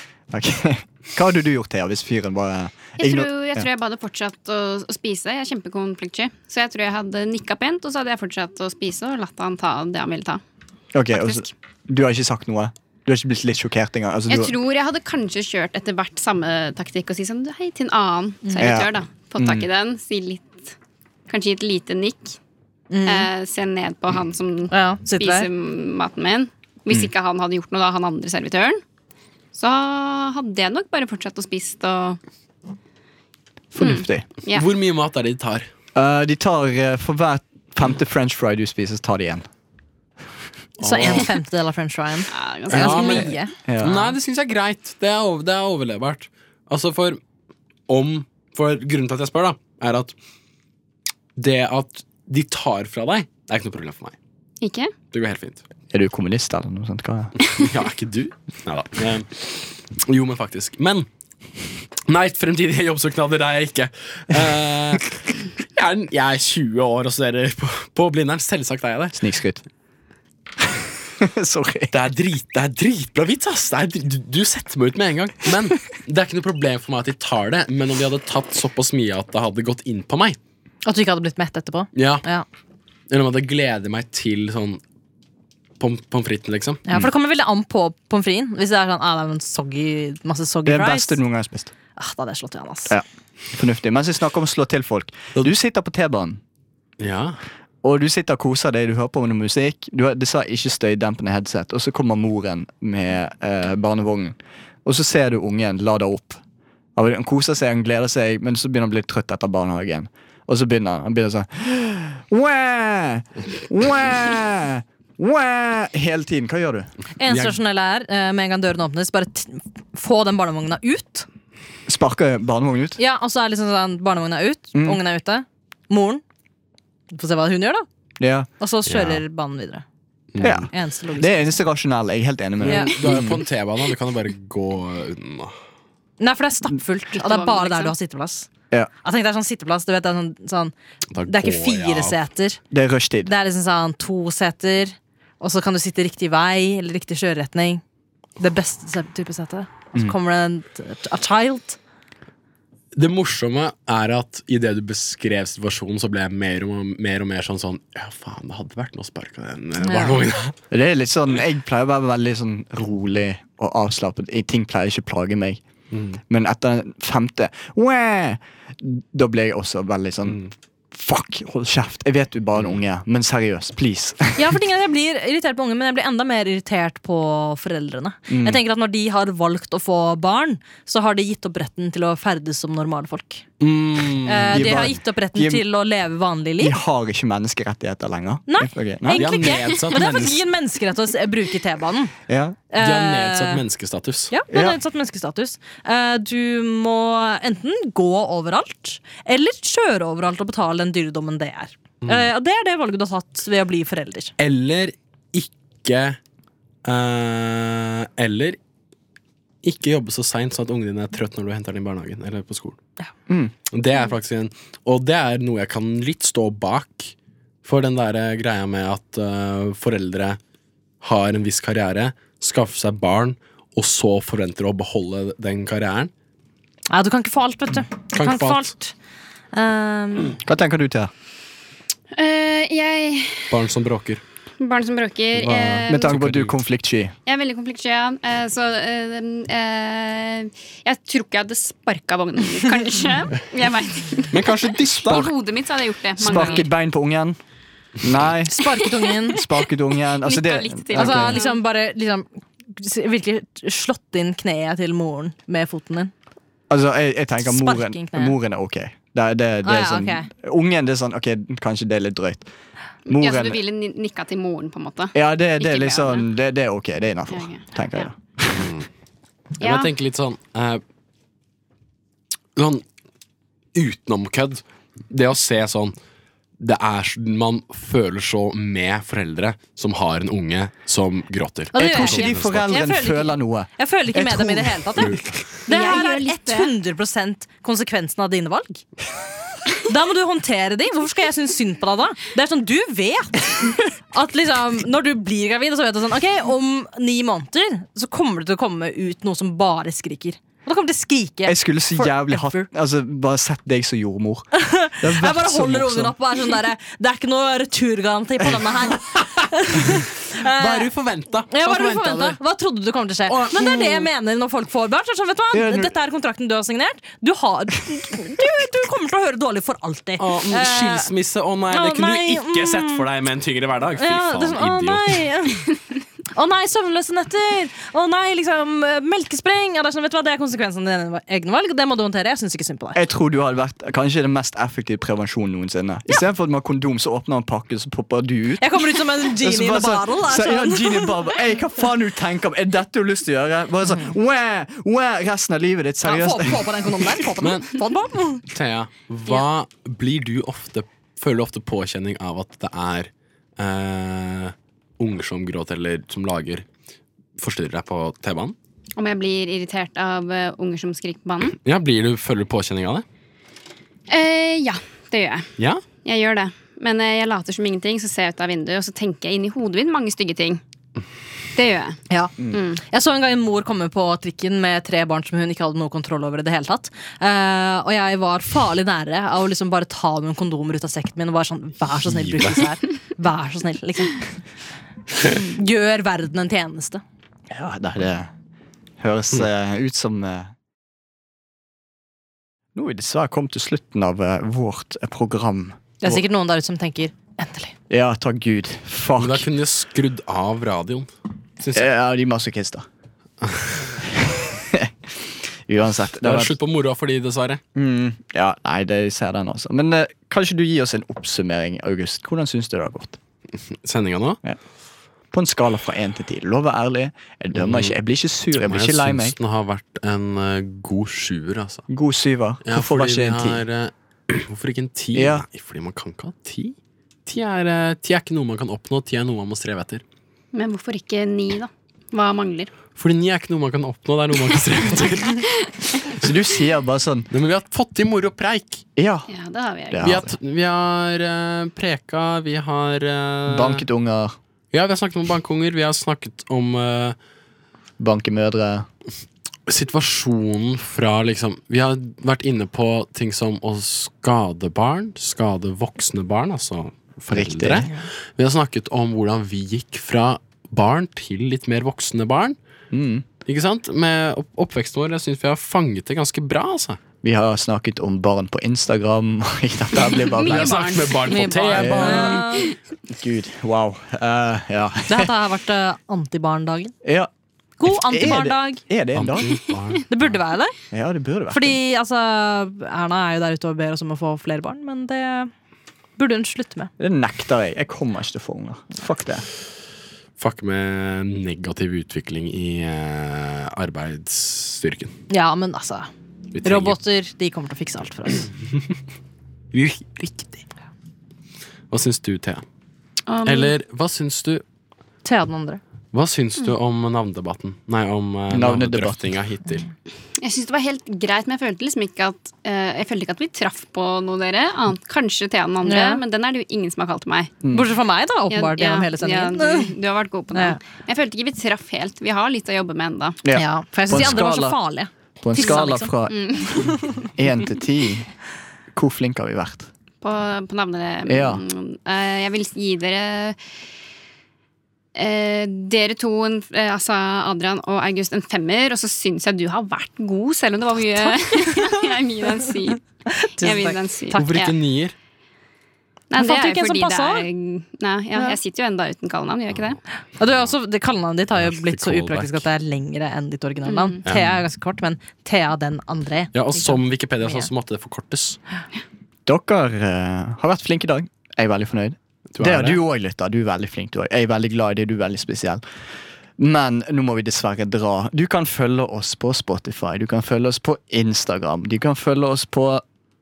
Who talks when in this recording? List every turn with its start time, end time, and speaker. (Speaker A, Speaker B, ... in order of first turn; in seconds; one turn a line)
Speaker A: 0.3-3.7
Speaker B: 3.0-10.4
Speaker A: 10.9-14.6
Speaker B: 11.1-11.5
Speaker B: 14.3-20.7
Speaker C: 18.4-18.8
Speaker A: 18.6-19.7
Speaker B: 21.3-22.4
Speaker C: 22.9-23.3
Speaker B: 23.1-28.8
Speaker C: 24.7-25.5
Speaker B: 29.5-32.2
Speaker A: 33.7-34.3
Speaker B: 33.8-34.7
Speaker D: 34.5-35.7
Speaker A: 36.0-39.5
Speaker C: 40.8-43.5
Speaker D: 40.8-41.3
Speaker B: 42.3-43.3
Speaker A: 42.7-44.1
Speaker D: 42.8-43.3
Speaker D: 43.8-47.2
Speaker D: 47.9-50.1
Speaker D: 51.4-54.2
Speaker B: 54.6-54.9
Speaker D: 55.1-55.6
Speaker A: 55.9-57.4
Speaker D: 57.4-61.1
Speaker D: 62.1-69.2
Speaker A: 69.2-69.6
Speaker A: 71.2-71.9
Speaker D: 71.9-80.4
Speaker C: 80.8-82.5
Speaker D: 82.0-82.2
Speaker D: 83.1-84.8
Speaker D: 85.8-86.8
Speaker C: 86.9-91.2
Speaker A: 90.7-91.7
Speaker C: 92.0-93.0
Speaker A: 92.9-96.4
Speaker D: 97.0-97.4
Speaker A: 97.8-106.4
Speaker A: 107.0-116.9
Speaker C: 117.2-121.3
Speaker D: 117.3-117.6
Speaker A: 121.9-123.0
Speaker C: 123.0-126.2
Speaker A: 124.7-125.0
Speaker C: 127.1-127.9
Speaker A: 128.2-128.5
Speaker C: 128.6-129.8
Speaker D: 128.9-129.2
Speaker D: 130.3-130.7
Speaker C: 130.4-131.6
Speaker A: 130.4-133.4
Speaker D: 132.6-135.6
Speaker C: 132.7-133.0
Speaker C: 136.2-138.5
Speaker B: 137.1-137.9
Speaker C: 139.0-140.7
Speaker D: 141.1-142.2
Speaker C: 141.3-142.6
Speaker A: 142.7-143.3
Speaker C: 143.2-147.8
Speaker C: 148.4-151.8
Speaker D: 152.9-160.6
Speaker C: 159.8-160.2
Speaker A: 160.7-165.6
Speaker D: 165.9-166.2
Speaker A: 166.3-174.6
Speaker C: 174.4-183.4
Speaker A: 178.3-178.6
Speaker D: 183.6-184.9
Speaker C: 184.2-186.8
Speaker A: 184.5-185.6
Speaker A: 186.6-189.6
Speaker C: 188.5-192.1
Speaker D: 189.1-190.4
Speaker A: 192.3-192.6
Speaker C: 192.7-193.6
Speaker D: 192.8-194.4
Speaker C: 194.3-204.3
Speaker A: 194.5-194.8
Speaker D: 204.4-206.2
Speaker D: 206.8-208.6
Speaker D: 209.6-212.8
Speaker A: 213.3-213.5
Speaker D: 213.7-220.4
Speaker D: 221.0-226.1
Speaker C: 226.9-228.9
Speaker D: 228.1-228.7
Speaker C: 229.5-230.4
Speaker A: 230.4-231.1
Speaker B: 232.1-233.5
Speaker D: 233.5-234.2
Speaker B: 234.6-236.1
Speaker D: 235.4-236.6
Speaker A: 235.4-237.2
Speaker B: 237.3-244.4
Speaker D: 244.3-245.3
Speaker B: 244.9-246.7
Speaker A: 246.2-247.4
Speaker C: 246.3-246.6
Speaker A: 248.0-248.6
Speaker C: 248.5-249.4
Speaker A: 249.3-251.4
Speaker B: 250.1-251.6
Speaker C: 250.9-256.1
Speaker A: 256.7-262.5
Speaker C: 257.4-258.4
Speaker C: 259.6-260.3
Speaker A: 263.1-263.6
Speaker B: 263.1-266.3
Speaker A: 265.1-268.7
Speaker B: 267.3-268.1
Speaker D: 268.5-268.9
Speaker B: 269.6-269.9
Speaker D: 269.6-270.8
Speaker D: 272.6-272.8
Speaker D: 273.8-275.9
Speaker D: 276.6-282.8
Speaker C: 281.7-288.8
Speaker A: 281.7-285.3
Speaker D: 285.0-285.5
Speaker B: 285.7-286.7
Speaker C: 289.9-302.7
Speaker A: 301.5-306.1
Speaker C: 304.6-310.9
Speaker D: 309.8-312.4
Speaker C: 311.5-321.1
Speaker D: 313.3-314.1
Speaker A: 315.5-315.9
Speaker D: 320.2-325.3
Speaker C: 321.7-323.1
Speaker C: 324.0-325.7
Speaker C: 326.3-333.0
Speaker A: 332.9-346.7
Speaker C: 338.6-341.2
Speaker C: 346.0-348.4
Speaker D: 347.4-347.7
Speaker D: 348.5-356.6
Speaker D: 357.4-358.6
Speaker B: 359.0-361.6
Speaker D: 361.6-363.1
Speaker B: 364.1-365.5
Speaker D: 365.6-365.8
Speaker B: 366.0-370.6
Speaker B: 371.6-372.0
Speaker C: 372.1-384.3
Speaker B: 372.5-372.8
Speaker D: 382.1-382.6
Speaker C: 385.2-387.0
Speaker A: 387.5-388.3
Speaker A: 389.0-390.5
Speaker A: 392.8-396.2
Speaker C: 396.0-397.7
Speaker A: 397.9-399.5
Speaker D: 399.2-401.1
Speaker D: 401.6-401.9
Speaker A: 401.7-402.9
Speaker D: 403.4-403.9
Speaker A: 404.1-406.6
Speaker D: 406.2-407.6
Speaker A: 407.8-413.2
Speaker D: 413.8-414.4
Speaker A: 415.3-419.4
Speaker D: 417.5-417.9
Speaker D: 418.6-421.8
Speaker A: 421.9-423.6
Speaker D: 422.6-430.0
Speaker A: 425.1-425.5
Speaker B: 430.5-432.7
Speaker D: 433.0-435.5
Speaker A: 436.1-437.3
Speaker D: 437.3-438.8
Speaker A: 439.0-439.3
Speaker B: 439.3-440.2
Speaker A: 439.9-440.3
Speaker D: 440.0-443.9
Speaker A: 443.5-444.4
Speaker D: 444.7-447.2
Speaker A: 448.0-448.9
Speaker D: 449.7-462.6
Speaker A: 457.3-457.9
Speaker A: 462.9-463.3
Speaker D: 463.5-467.0
Speaker A: 467.2-470.8
Speaker B: 470.3-471.5
Speaker D: 470.4-472.5
Speaker C: 471.2-472.8
Speaker A: 471.8-472.5
Speaker A: 473.1-475.3
Speaker C: 475.1-476.9
Speaker A: 477.0-477.3
Speaker C: 477.8-478.8
Speaker A: 477.9-479.6
Speaker D: 479.1-480.3
Speaker C: 480.1-480.8
Speaker A: 480.9-481.8
Speaker C: 481.5-485.5
Speaker C: 486.2-486.9
Speaker A: 487.0-489.5
Speaker D: 490.4-495.1
Speaker C: 495.3-496.1
Speaker D: 496.5-497.0
Speaker C: 496.6-498.5
Speaker D: 499.7-500.6
Speaker D: 501.9-502.6
Speaker B: 503.3-503.8
Speaker D: 503.4-504.6
Speaker C: 505.2-505.8
Speaker D: 506.1-509.9
Speaker A: 508.5-509.3
Speaker B: 510.4-517.5
Speaker C: 515.8-516.2
Speaker A: 517.6-517.9
Speaker C: 517.7-519.9
Speaker B: 518.5-523.4
Speaker C: 520.5-520.8
Speaker A: 523.4-524.8
Speaker C: 523.5-526.1
Speaker A: 525.4-528.3
Speaker B: 526.3-526.9
Speaker A: 528.9-529.9
Speaker B: 530.2-533.6
Speaker A: 531.3-531.6
Speaker B: 535.1-544.7
Speaker C: 541.2-542.1
Speaker C: 543.3-544.0
Speaker D: 544.3-545.1
Speaker B: 546.3-550.0
Speaker C: 546.4-547.5
Speaker C: 550.4-557.7
Speaker D: 551.5-552.6
Speaker B: 553.9-554.2
Speaker D: 554.3-554.6
Speaker D: 556.5-558.6
Speaker A: 559.5-565.8
Speaker D: 562.5-563.0
Speaker A: 566.6-573.0